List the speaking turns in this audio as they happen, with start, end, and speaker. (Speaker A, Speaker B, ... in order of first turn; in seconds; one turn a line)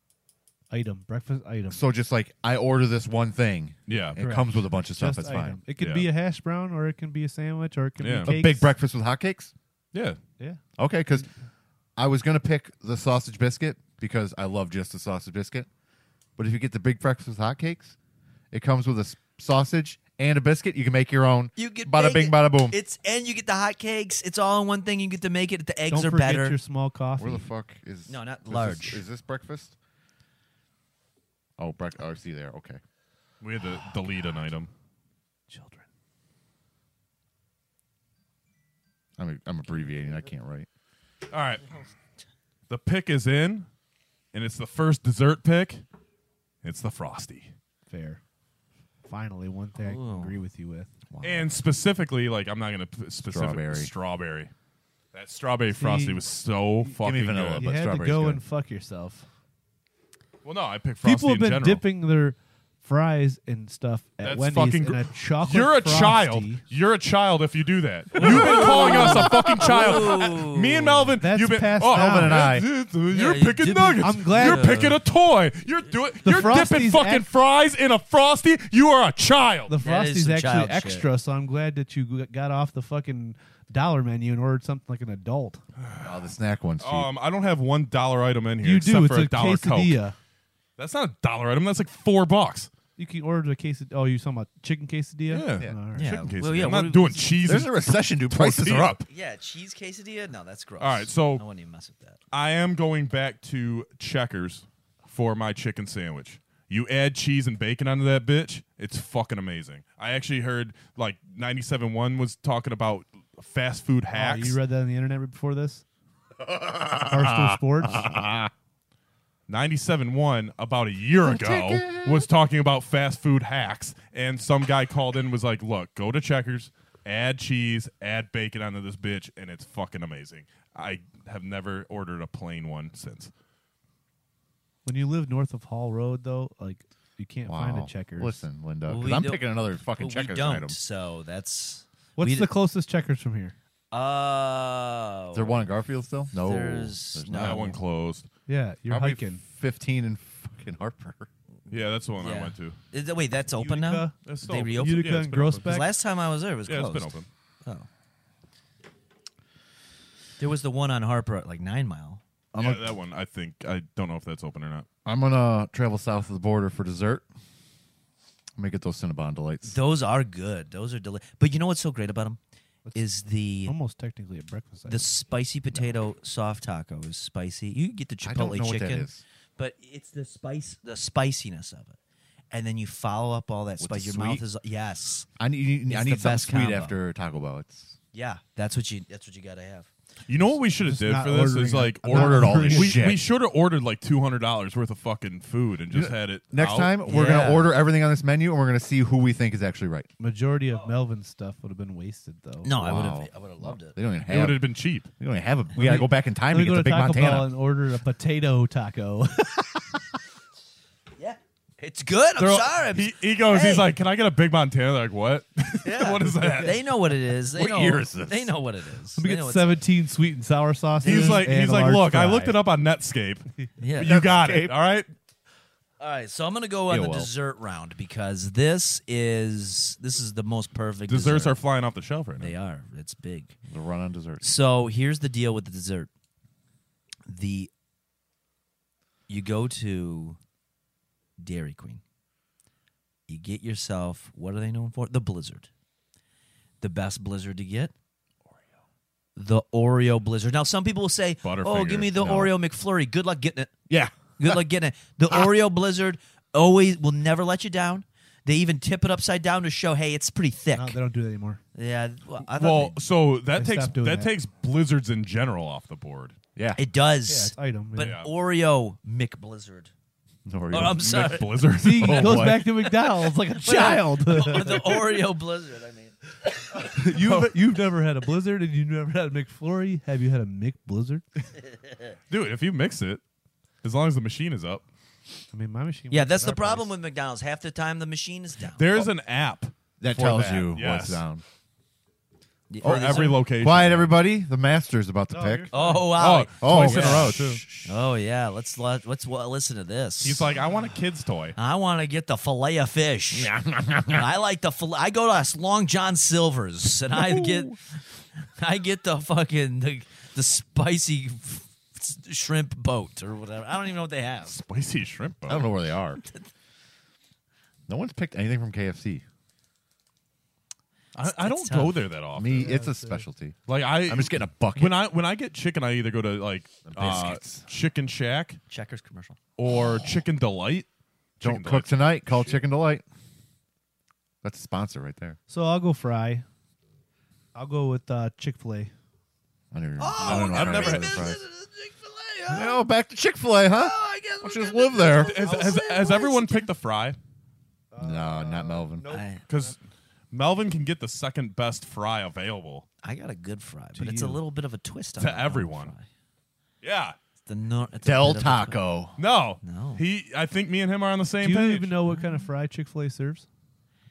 Speaker A: 0.7-1.8
Speaker B: 1.7-5.6
Speaker C: 3.9-4.2
Speaker A: 4.2-8.7
Speaker C: 5.8-6.1
Speaker C: 8.0-8.3
Speaker B: 8.2-9.5
Speaker C: 9.9-10.2
Speaker B: 10.8-11.3
Speaker B: 12.0-15.7
Speaker B: 16.4-18.0
Speaker B: 18.5-22.8
Speaker D: 21.6-26.6
Speaker A: 25.9-27.5
Speaker B: 27.2-29.8
Speaker D: 28.1-29.0
Speaker B: 31.6-32.8
Speaker C: 33.4-34.7
Speaker A: 35.5-35.9
Speaker B: 39.2-40.7
Speaker C: 41.3-41.7
Speaker C: 42.7-43.7
Speaker C: 44.3-45.8
Speaker C: 46.6-47.5
Speaker A: 47.9-48.2
Speaker A: 49.0-50.9
Speaker D: 49.8-50.4
Speaker B: 51.1-51.5
Speaker C: 51.2-54.5
Speaker B: 53.2-53.9
Speaker C: 55.1-57.6
Speaker A: 55.7-56.2
Speaker B: 57.0-58.4
Speaker A: 57.5-59.3
Speaker C: 60.4-61.8
Speaker A: 61.0-66.6
Speaker C: 64.2-79.7
Speaker B: 68.2-69.8
Speaker D: 68.2-71.1
Speaker A: 71.2-72.4
Speaker B: 71.9-72.7
Speaker D: 73.1-75.0
Speaker A: 74.0-74.8
Speaker A: 76.2-77.3
Speaker A: 79.7-85.6
Speaker D: 79.8-81.1
Speaker C: 85.8-86.2
Speaker B: 86.0-87.1
Speaker C: 86.8-90.0
Speaker A: 88.6-90.2
Speaker C: 90.8-92.7
Speaker A: 93.0-96.2
Speaker C: 95.3-99.0
Speaker D: 96.0-97.4
Speaker B: 97.4-99.0
Speaker D: 99.1-102.2
Speaker C: 100.8-101.5
Speaker C: 102.3-114.6
Speaker A: 114.1-115.8
Speaker B: 116.4-118.5
Speaker A: 117.1-118.1
Speaker C: 119.5-133.3
Speaker B: 121.2-122.3
Speaker A: 134.8-138.4
Speaker B: 137.5-140.8
Speaker D: 138.9-142.5
Speaker A: 142.2-143.6
Speaker D: 143.9-145.7
Speaker B: 145.3-147.8
Speaker D: 146.3-147.8
Speaker C: 147.3-148.3
Speaker A: 148.5-149.4
Speaker B: 148.9-151.3
Speaker C: 151.7-152.8
Speaker D: 152.2-155.1
Speaker A: 153.5-154.2
Speaker C: 154.2-155.8
Speaker A: 154.7-155.9
Speaker D: 155.6-157.1
Speaker C: 156.7-157.3
Speaker D: 160.4-162.2
Speaker B: 162.5-162.9
Speaker C: 162.6-164.9
Speaker B: 165.1-167.2
Speaker B: 168.6-169.8
Speaker D: 169.7-172.4
Speaker D: 172.9-173.7
Speaker A: 173.7-175.1
Speaker D: 174.9-182.0
Speaker B: 178.2-179.2
Speaker D: 182.5-185.3
Speaker B: 183.8-184.4
Speaker B: 185.4-188.0
Speaker D: 185.9-186.9
Speaker D: 188.1-189.9
Speaker C: 190.3-197.0
Speaker A: 190.8-193.0
Speaker B: 192.1-193.3
Speaker B: 195.9-200.1
Speaker D: 197.1-197.8
Speaker A: 200.2-202.7
Speaker D: 202.6-204.0
Speaker B: 202.8-204.7
Speaker C: 204.3-205.1
Speaker B: 205.2-207.5
Speaker A: 205.8-210.0
Speaker D: 211.2-213.9
Speaker C: 212.4-216.8
Speaker D: 215.8-219.8
Speaker B: 217.5-218.6
Speaker A: 219.2-222.6
Speaker D: 221.0-221.5
Speaker C: 221.0-225.1
Speaker D: 223.8-224.2
Speaker B: 224.0-224.8
Speaker D: 226.0-231.6
Speaker B: 226.9-227.3
Speaker C: 231.1-232.5
Speaker D: 232.4-233.6
Speaker B: 233.7-234.5
Speaker D: 234.4-236.1
Speaker D: 237.3-237.7
Speaker D: 239.3-240.4
Speaker D: 241.4-242.0
Speaker D: 243.3-245.7
Speaker D: 246.8-247.9
Speaker D: 249.4-253.7
Speaker C: 251.4-252.3
Speaker B: 252.2-252.5
Speaker B: 253.9-254.6
Speaker D: 254.4-261.0
Speaker A: 260.7-261.6
Speaker D: 261.8-263.0
Speaker C: 262.4-266.4
Speaker A: 263.5-264.3
Speaker D: 266.8-269.9
Speaker A: 267.3-268.2
Speaker C: 268.0-268.3
Speaker B: 270.5-271.3
Speaker D: 270.7-271.6
Speaker C: 271.0-272.6
Speaker A: 271.8-275.1
Speaker B: 271.9-272.7
Speaker D: 272.8-277.0
Speaker A: 276.7-281.2
Speaker C: 282.3-283.2
Speaker C: 283.8-284.8
Speaker A: 285.5-286.9
Speaker D: 286.1-289.1
Speaker C: 288.8-291.2
Speaker B: 290.0-291.4
Speaker D: 292.7-293.4
Speaker B: 292.8-295.7
Speaker C: 292.8-294.1
Speaker A: 295.3-296.2
Speaker D: 295.7-300.6
Speaker C: 296.1-297.6
Speaker B: 296.6-298.0
Speaker C: 300.2-301.6
Speaker D: 301.6-303.5
Speaker B: 303.3-304.3
Speaker D: 304.1-307.8
Speaker B: 307.2-307.7
Speaker D: 308.6-314.6
Speaker C: 314.5-315.7
Speaker B: 315.5-316.2
Speaker D: 316.2-316.5
Speaker B: 317.9-319.2
Speaker C: 321.1-322.7
Speaker D: 321.2-322.1
Speaker B: 322.4-325.0
Speaker A: 322.5-323.3
Speaker C: 323.7-328.6
Speaker B: 326.9-327.7
Speaker D: 328.7-329.4
Speaker C: 329.6-330.9
Speaker B: 329.7-330.2
Speaker C: 331.4-332.6
Speaker B: 331.4-333.1
Speaker B: 334.4-335.4
Speaker A: 335.5-336.4
Speaker A: 337.6-338.9
Speaker B: 339.7-341.4
Speaker D: 340.0-342.8
Speaker C: 340.2-341.4
Speaker B: 342.5-345.5
Speaker D: 343.7-346.7
Speaker C: 345.1-347.2
Speaker A: 347.9-349.8
Speaker B: 348.0-349.1
Speaker D: 349.1-349.4
Speaker C: 349.5-349.8
Speaker C: 350.3-352.9
Speaker D: 353.0-356.1
Speaker A: 353.9-354.4
Speaker C: 355.2-355.9
Speaker C: 356.8-357.2
Speaker D: 357.5-358.8
Speaker B: 358.0-359.2
Speaker C: 359.2-362.0
Speaker D: 359.6-360.0
Speaker A: 361.4-363.5